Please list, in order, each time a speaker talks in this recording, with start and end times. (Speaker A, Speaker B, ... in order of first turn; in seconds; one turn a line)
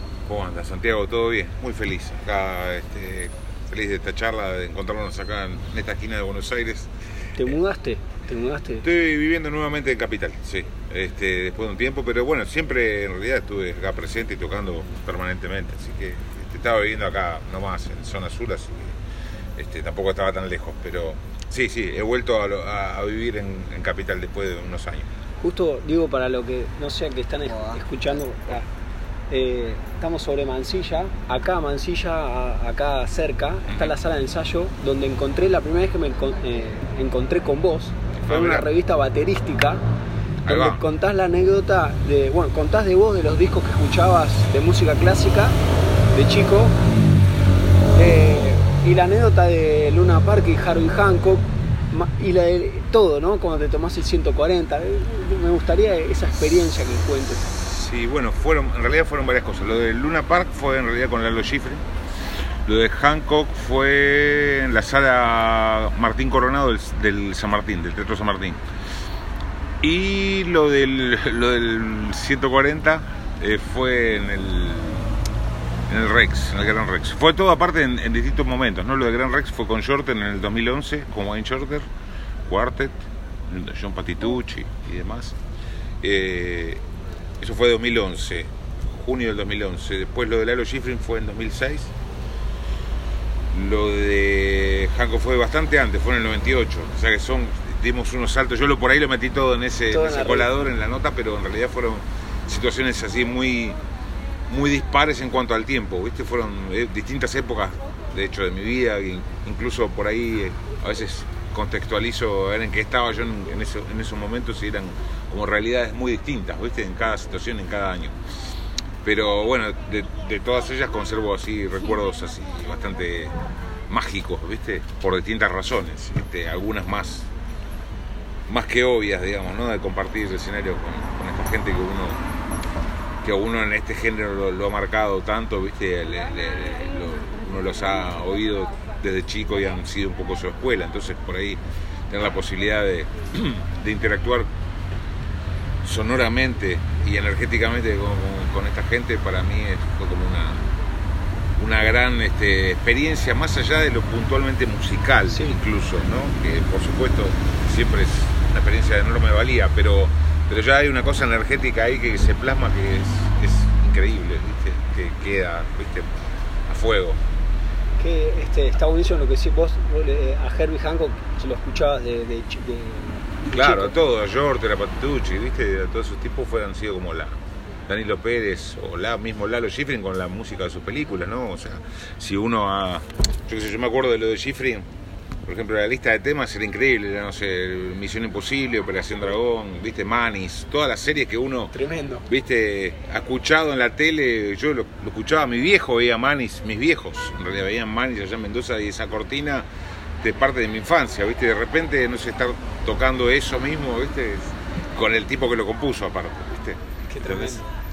Speaker A: 0.3-6.9
Speaker B: 7.4-8.9
Speaker A: 8.8-18.9
Speaker A: 19.6-25.1
Speaker B: 25.4-28.7
Speaker B: 29.3-39.8
Speaker A: 38.2-38.7
Speaker A: 40.5-40.8
Speaker B: 40.5-45.6
Speaker B: 46.1-46.8
Speaker B: 48.0-57.5
Speaker A: 57.5-61.8
Speaker A: 62.6-68.6
Speaker A: 69.8-75.1
Speaker A: 75.9-81.9
Speaker A: 82.5-85.4
Speaker A: 86.0-86.8
Speaker A: 87.4-91.9
Speaker A: 93.5-103.8
Speaker B: 99.9-100.5
Speaker A: 104.5-118.2
Speaker A: 119.0-127.3
Speaker A: 128.5-132.2
Speaker A: 133.2-144.5
Speaker A: 145.8-150.7
Speaker A: 151.6-166.1
Speaker B: 155.3-155.6
Speaker A: 166.7-167.2
Speaker B: 168.0-174.0
Speaker A: 173.5-177.4
Speaker A: 177.9-184.8
Speaker A: 185.4-191.8
Speaker B: 191.7-192.3
Speaker A: 192.3-199.7
Speaker A: 200.2-207.6
Speaker B: 207.1-207.7